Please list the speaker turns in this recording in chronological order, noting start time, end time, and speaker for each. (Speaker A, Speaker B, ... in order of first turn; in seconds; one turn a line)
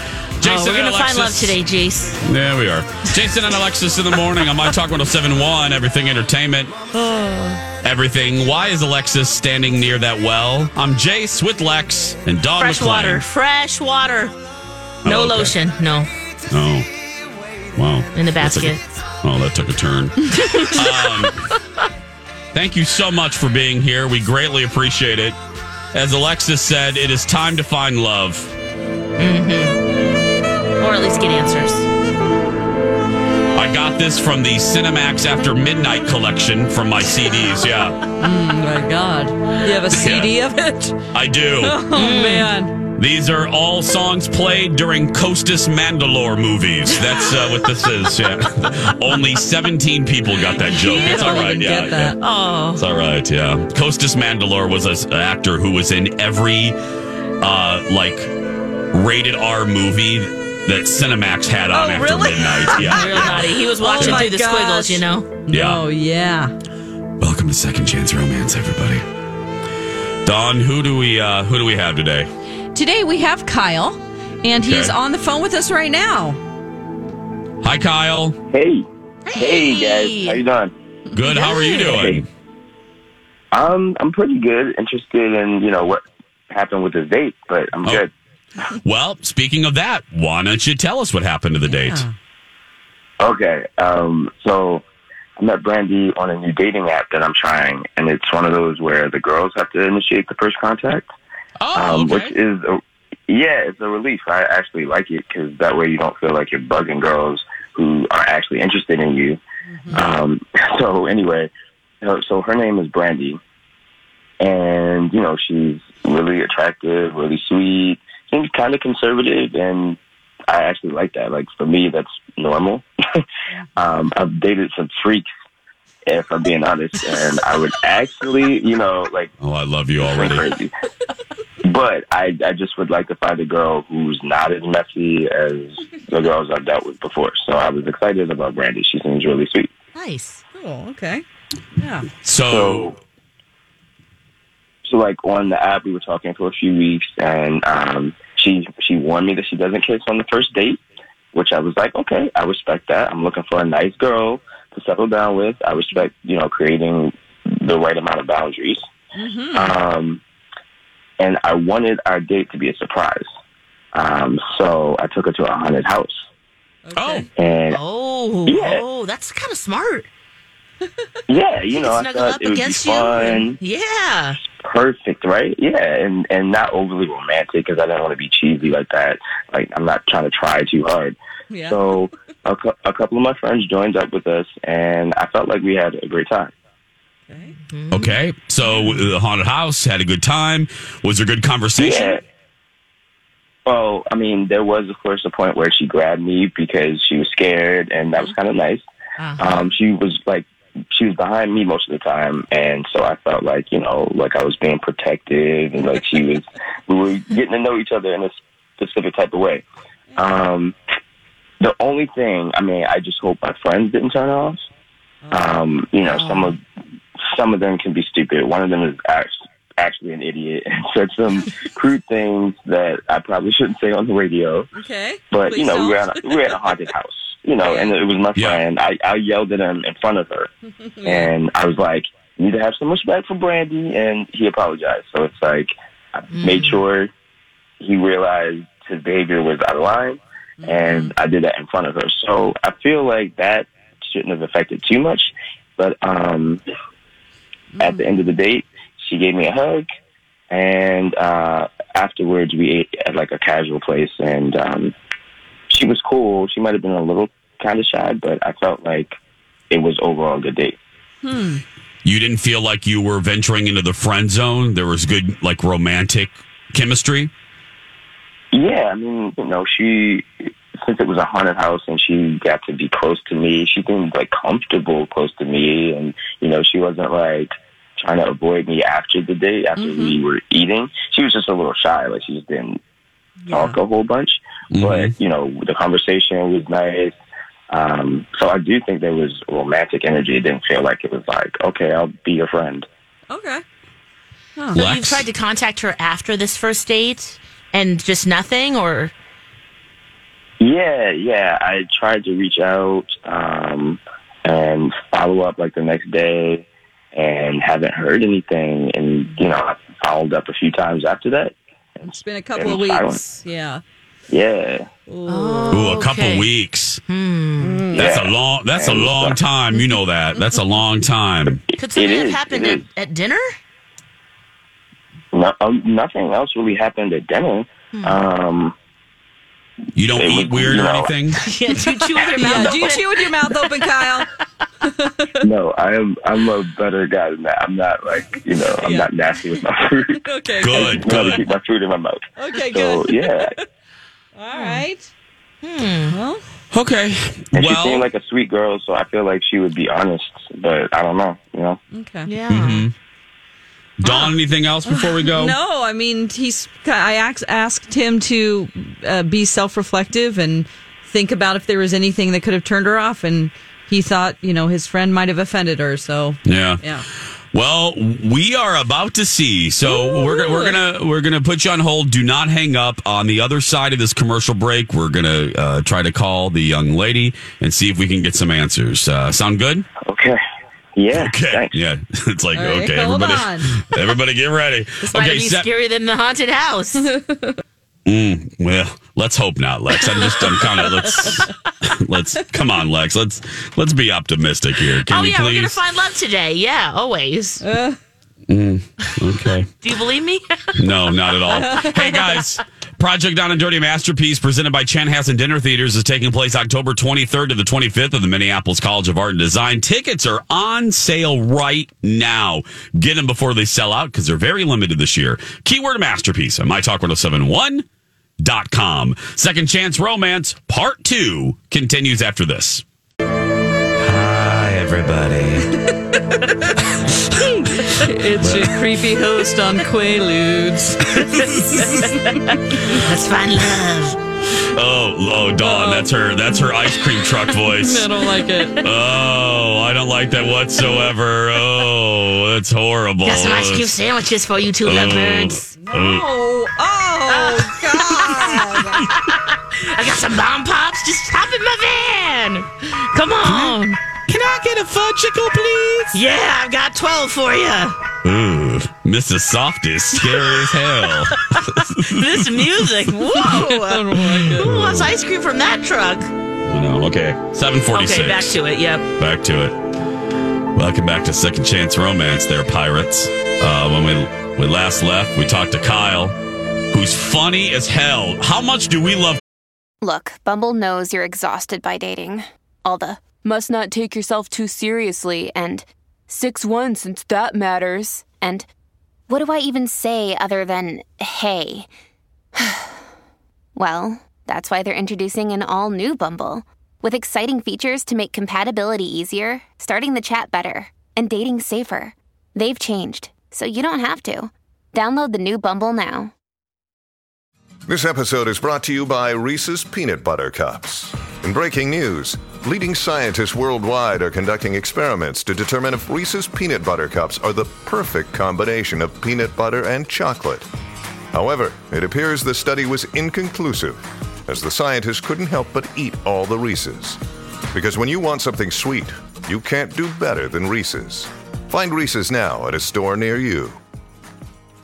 Speaker A: 0.4-1.6
Speaker B: 0.4-2.2
Speaker A: 2.2-6.7
Speaker C: 6.9-7.6
Speaker A: 7.8-13.2
Speaker B: 12.6-14.3
Speaker A: 15.0-15.6
Speaker B: 15.0-16.1
Speaker A: 16.5-16.9
Speaker A: 17.8-21.4
Speaker B: 18.1-18.8
Speaker B: 20.4-21.0
Speaker A: 22.5-25.4
Speaker A: 25.9-28.5
Speaker B: 29.2-29.8
Speaker B: 30.8-31.9
Speaker A: 33.5-38.0
Speaker C: 38.2-41.0
Speaker A: 39.9-40.3
Speaker A: 41.1-41.8
Speaker C: 41.6-42.7
Speaker B: 41.9-42.5
Speaker A: 43.0-52.2
Speaker B: 47.0-48.1
Speaker C: 50.6-52.2
Speaker B: 50.8-51.5
Speaker B: 52.2-52.8
Speaker A: 52.8-56.8
Speaker A: 57.4-58.3
Speaker A: 58.9-64.3
Speaker C: 61.7-66.5
Speaker B: 62.7-65.3
Speaker A: 65.5-65.8
Speaker A: 67.2-69.0
Speaker A: 70.2-72.3
Speaker C: 72.7-76.4
Speaker A: 74.6-74.9
Speaker A: 77.6-78.4
Speaker D: 78.5-80.7
Speaker B: 79.3-80.4
Speaker A: 81.1-82.3
Speaker B: 81.3-82.0
Speaker D: 81.8-82.2
Speaker D: 83.5-88.1
Speaker A: 88.8-92.0
Speaker C: 91.7-92.1
Speaker D: 93.2-94.8
Speaker D: 95.4-101.1
Speaker A: 101.6-102.3
Speaker D: 101.7-109.4
Speaker C: 109.7-110.0
Speaker D: 109.9-111.5
Speaker D: 112.0-113.4
Speaker D: 114.4-120.0
Speaker D: 120.5-123.2
Speaker D: 123.8-125.2
Speaker D: 126.1-129.3
Speaker A: 129.4-130.5
Speaker D: 130.0-130.7
Speaker D: 131.6-139.7
Speaker B: 139.9-140.4
Speaker C: 140.5-141.2
Speaker C: 141.8-142.1
Speaker A: 142.2-142.9
Speaker D: 142.4-142.9
Speaker D: 144.8-150.8
Speaker D: 151.3-158.8
Speaker C: 159.1-159.7
Speaker D: 159.5-160.2
Speaker D: 161.2-163.3
Speaker D: 163.9-166.3
Speaker C: 166.8-167.3
Speaker A: 166.9-167.3
Speaker D: 167.3-167.8
Speaker B: 167.7-170.1
Speaker D: 168.4-168.8
Speaker D: 171.3-173.6
Speaker B: 171.7-174.4
Speaker D: 174.5-186.5
Speaker C: 181.5-181.8
Speaker C: 187.3-187.6
Speaker B: 187.7-188.2
Speaker A: 187.9-192.2
Speaker C: 188.7-189.0
Speaker D: 191.8-192.2
Speaker D: 193.7-198.8
Speaker B: 199.2-199.7
Speaker D: 199.4-209.6
Speaker D: 210.2-210.7
Speaker D: 211.6-214.7
Speaker D: 215.3-216.6
Speaker B: 216.1-216.5
Speaker D: 217.3-224.7
Speaker C: 224.7-226.5
Speaker D: 225.3-230.5
Speaker C: 227.6-227.9
Speaker A: 228.3-228.6
Speaker C: 230.8-231.3
Speaker D: 231.0-237.1
Speaker B: 236.3-236.8
Speaker D: 237.8-246.6
Speaker C: 240.6-241.1
Speaker C: 247.7-248.1
Speaker D: 247.8-249.9
Speaker D: 250.5-254.9
Speaker D: 255.7-259.1
Speaker D: 259.7-260.8
Speaker C: 261.2-261.6
Speaker A: 262.0-267.3
Speaker D: 268.5-270.3
Speaker D: 270.8-282.8
Speaker C: 279.8-280.1
Speaker C: 283.4-283.7
Speaker D: 283.5-287.1
Speaker A: 284.7-285.1
Speaker D: 287.7-292.9
Speaker C: 293.3-293.6
Speaker C: 294.6-294.8
Speaker A: 294.7-295.2
Speaker B: 294.7-299.1
Speaker D: 300.6-313.2
Speaker C: 312.0-313.8
Speaker D: 314.3-314.9
Speaker C: 315.1-315.9
Speaker B: 315.3-316.5
Speaker A: 315.7-317.0
Speaker B: 317.1-317.9
Speaker C: 317.6-318.0
Speaker D: 317.9-319.4
Speaker A: 317.9-321.6
Speaker B: 321.8-323.5
Speaker D: 321.9-322.8
Speaker D: 325.3-328.7
Speaker A: 329.9-331.4
Speaker D: 330.1-331.1
Speaker B: 331.4-333.7
Speaker C: 332.4-334.3
Speaker D: 332.4-332.9
Speaker C: 334.8-335.4
Speaker D: 335.4-343.5
Speaker C: 338.3-339.6
Speaker C: 340.1-341.4
Speaker A: 340.6-341.4
Speaker C: 342.4-343.6
Speaker C: 344.4-345.1
Speaker B: 344.5-344.8
Speaker B: 345.6-346.1
Speaker C: 346.1-346.4
Speaker A: 346.7-348.1
Speaker D: 347.5-351.8
Speaker C: 351.9-352.3
Speaker B: 352.3-352.9
Speaker A: 352.5-352.9
Speaker A: 354.0-355.6
Speaker B: 354.0-354.3
Speaker C: 354.9-367.1
Speaker A: 366.4-366.8
Speaker A: 367.5-379.9
Speaker C: 369.9-370.8
Speaker D: 380.0-380.4
Speaker D: 380.9-381.8
Speaker A: 381.1-385.7
Speaker C: 382.5-383.7
Speaker B: 385.0-387.1
Speaker C: 387.0-387.6
Speaker A: 388.1-395.8
Speaker B: 390.1-390.6
Speaker C: 390.3-391.5
Speaker B: 395.1-397.6
Speaker C: 397.6-398.0
Speaker A: 398.5-399.7
Speaker B: 399.8-400.6
Speaker A: 400.7-417.9
Speaker B: 401.4-402.4
Speaker C: 401.5-402.3
Speaker A: 418.4-422.8
Speaker A: 424.0-425.7
Speaker C: 427.4-432.4
Speaker A: 428.4-428.8
Speaker B: 431.3-434.2
Speaker A: 434.6-438.1
Speaker C: 435.6-436.6
Speaker C: 437.6-438.8
Speaker A: 438.8-443.9
Speaker B: 443.2-445.7
Speaker A: 444.8-446.3
Speaker C: 445.8-449.1
Speaker B: 447.3-454.0
Speaker A: 453.4-456.2
Speaker B: 456.1-457.9
Speaker A: 458.2-462.9
Speaker B: 460.2-466.3
Speaker C: 463.3-464.8
Speaker A: 464.2-465.1
Speaker A: 466.6-468.6
Speaker B: 467.9-469.1
Speaker A: 469.2-469.8
Speaker A: 470.7-476.3
Speaker A: 476.9-479.4
Speaker E: 480.0-488.6
Speaker E: 489.3-491.9
Speaker E: 492.6-493.0
Speaker E: 493.8-506.3
Speaker F: 507.9-520.7
Speaker F: 521.3-527.2
Speaker F: 527.7-533.8